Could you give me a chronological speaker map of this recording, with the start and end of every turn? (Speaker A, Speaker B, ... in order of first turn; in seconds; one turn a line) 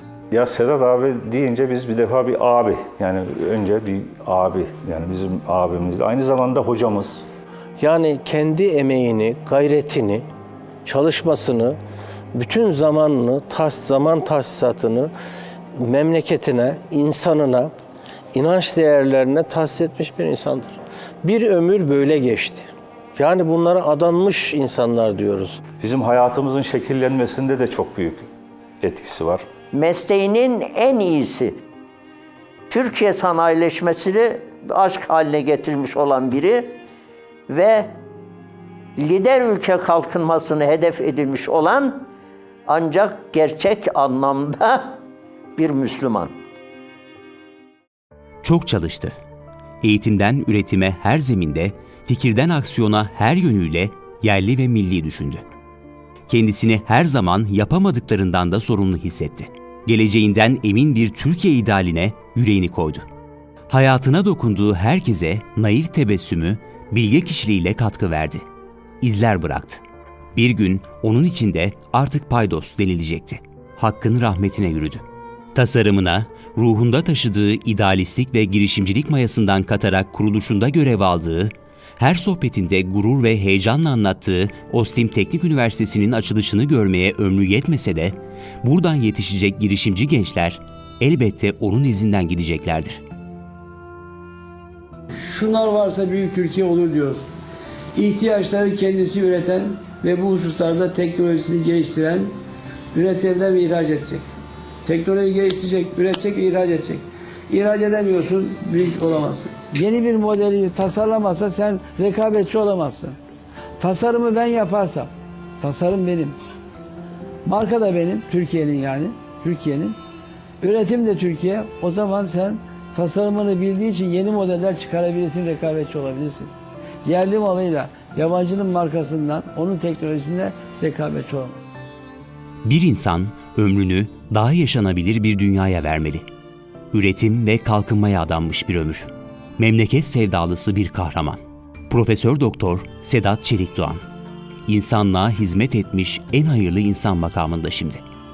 Speaker A: 0.3-7.0
Speaker B: 7.8-10.2
Speaker B: 10.8-11.8
Speaker B: 12.3-15.1
Speaker B: 15.8-17.7
Speaker B: 18.3-25.6
Speaker A: 25.8-28.2
Speaker A: 28.8-29.4
Speaker C: 29.7-31.6
Speaker C: 32.7-36.7
Speaker C: 37.5-37.9
Speaker C: 39.0-42.0
Speaker C: 42.7-44.9
Speaker C: 45.6-46.3
Speaker D: 48.4-49.1
Speaker D: 49.8-55.4
Speaker D: 56.3-63.0
Speaker D: 63.7-68.4
Speaker D: 69.0-69.8
Speaker D: 70.3-75.0
Speaker D: 75.5-93.0
Speaker E: 95.1-97.3
Speaker E: 98.0-102.3
Speaker E: 102.9-104.2
Speaker E: 104.8-113.2
Speaker E: 113.8-116.3
Speaker E: 117.4-120.0
Speaker E: 120.6-126.5
Speaker E: 127.0-131.6
Speaker D: 132.6-136.2
Speaker D: 136.9-144.0
Speaker D: 144.7-148.0